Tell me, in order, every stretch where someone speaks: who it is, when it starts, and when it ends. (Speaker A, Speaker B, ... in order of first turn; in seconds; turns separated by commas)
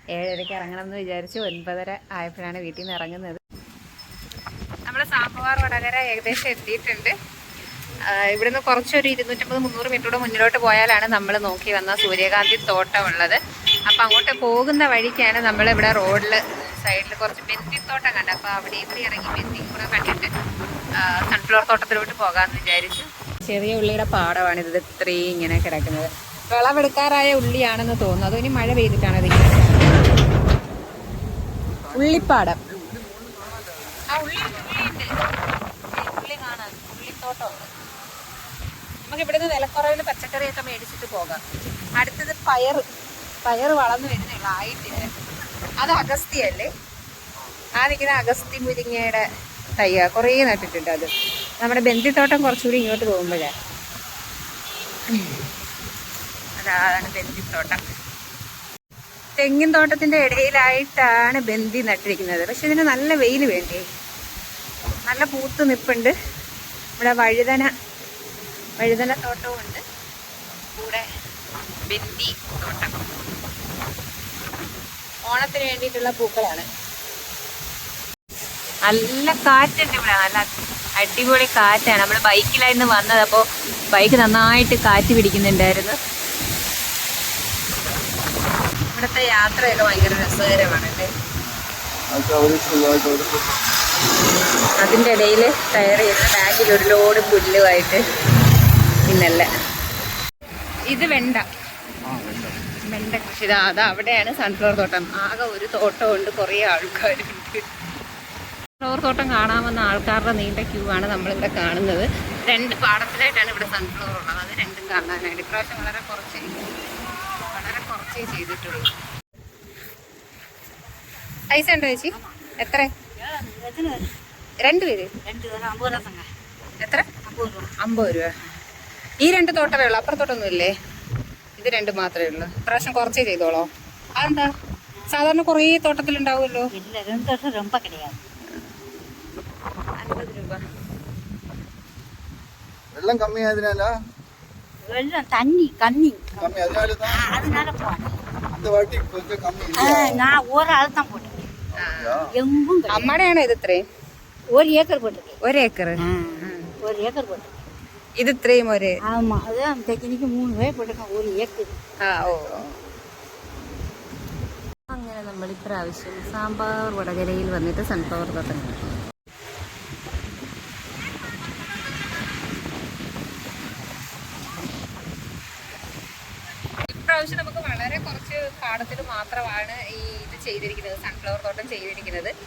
Speaker A: 0.1-3.4, Speaker A: 4.9-7.1, Speaker A: 8.1-20.3, Speaker A: 21.0-29.8, Speaker A: 31.9-32.6, Speaker B: 32.7-34.0, Speaker A: 34.1-35.2, Speaker A: 35.9-37.7, Speaker A: 39.0-41.4, Speaker A: 42.0-42.8, Speaker A: 43.4-45.1, Speaker A: 45.8-46.7, Speaker A: 47.8-49.2, Speaker A: 49.8-53.5, Speaker A: 55.1-55.4, Speaker A: 56.6-57.8, Speaker A: 59.4-63.8, Speaker A: 65.1-66.1, Speaker A: 67.0-67.7, Speaker A: 68.8-69.8, Speaker A: 70.7-71.0, Speaker A: 71.8-73.0, Speaker A: 75.2-76.7, Speaker A: 78.9-86.0, Speaker A: 88.9-91.1, Speaker B: 92.1-93.6, Speaker A: 94.8-98.0, Speaker A: 99.1-99.5, Speaker A: 100.9-101.4, Speaker B: 102.0-102.5, Speaker A: 102.9-107.6, Speaker A: 108.8-116.6, Speaker A: 117.5-118.9, Speaker A: 121.5-122.9, Speaker C: 122.1-122.4, Speaker C: 123.2-124.1, Speaker A: 124.6-125.1, Speaker C: 125.2-126.3, Speaker A: 126.8-127.1, Speaker C: 127.2-127.7, Speaker A: 127.8-128.3, Speaker A: 129.2-130.7, Speaker A: 131.6-134.5, Speaker A: 135.1-136.7, Speaker C: 136.7-138.2, Speaker A: 140.0-140.6, Speaker B: 142.9-144.0, Speaker C: 144.8-148.2, Speaker B: 146.4-147.2, Speaker B: 148.5-150.2, Speaker C: 149.8-151.5, Speaker A: 151.8-152.3, Speaker B: 151.8-152.3, Speaker C: 152.3-153.2, Speaker A: 152.9-153.8, Speaker C: 154.5-155.4, Speaker A: 155.4-156.7, Speaker C: 156.0-157.7, Speaker A: 158.2-158.9, Speaker C: 159.1-161.8, Speaker A: 162.0-162.7, Speaker A: 164.9-168.8, Speaker A: 176.8-182.3